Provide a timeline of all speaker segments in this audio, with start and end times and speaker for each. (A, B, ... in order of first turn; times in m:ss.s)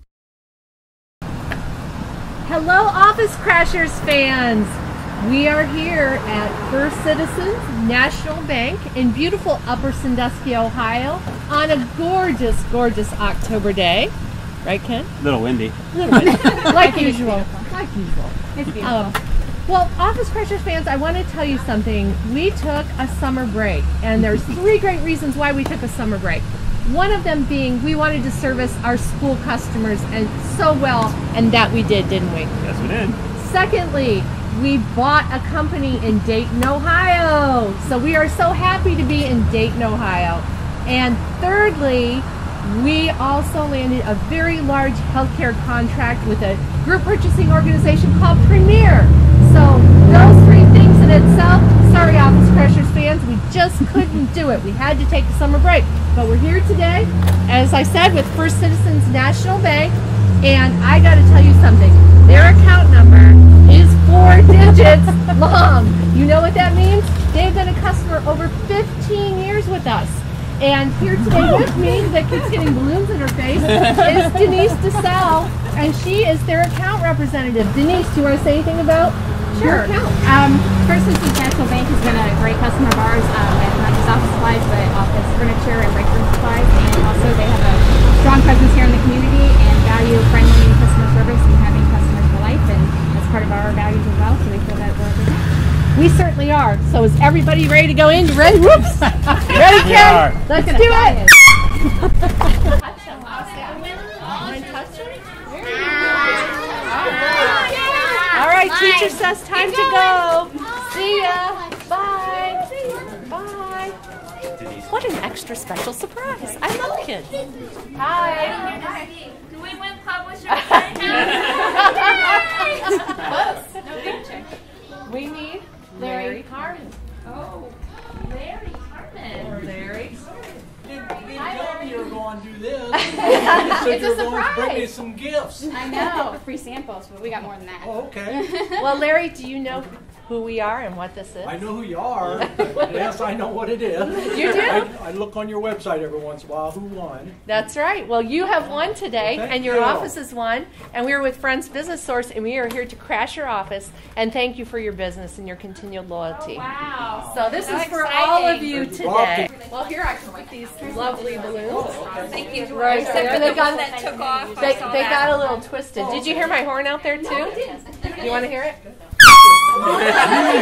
0:02.4-0:14.1 A
0:14.6-0:15.1 A
0:15.2-0:15.8 B
0:15.9-0:32.5 A
0:16.3-0:17.7 C
0:18.5-0:19.2 C
0:32.6-0:33.2 B
0:33.4-1:20.2 A
1:19.6-1:35.5 C
1:36.0-1:41.4 A
1:39.5-1:40.4 B
1:40.5-1:41.3 C
1:42.2-1:54.0 A
1:47.6-1:48.3 D
1:54.8-1:57.3 A
1:58.0-1:59.0 A
1:59.8-2:00.8 D
2:00.5-2:03.8 A
2:05.1-2:07.0 A
2:06.0-2:06.4 C
2:09.4-2:10.1 E
2:09.4-2:10.2 A
2:10.8-2:15.7 E
2:13.1-2:14.4 A
2:15.7-2:18.8 C
2:17.8-2:18.6 E
2:18.8-2:23.0 A
2:21.4-2:27.4 E
2:24.2-2:24.9 A
2:27.4-2:36.7 A
2:29.2-2:30.1 E
2:36.6-2:37.2 C
2:37.0-2:37.4 E
2:37.3-2:42.1 A
2:38.2-2:38.5 D
2:38.7-2:39.5 E
2:39.8-2:45.5 D
2:41.8-2:42.8 E
2:42.7-2:44.0 A
2:43.2-2:44.6 C
2:44.6-2:48.8 A
2:46.0-2:46.4 E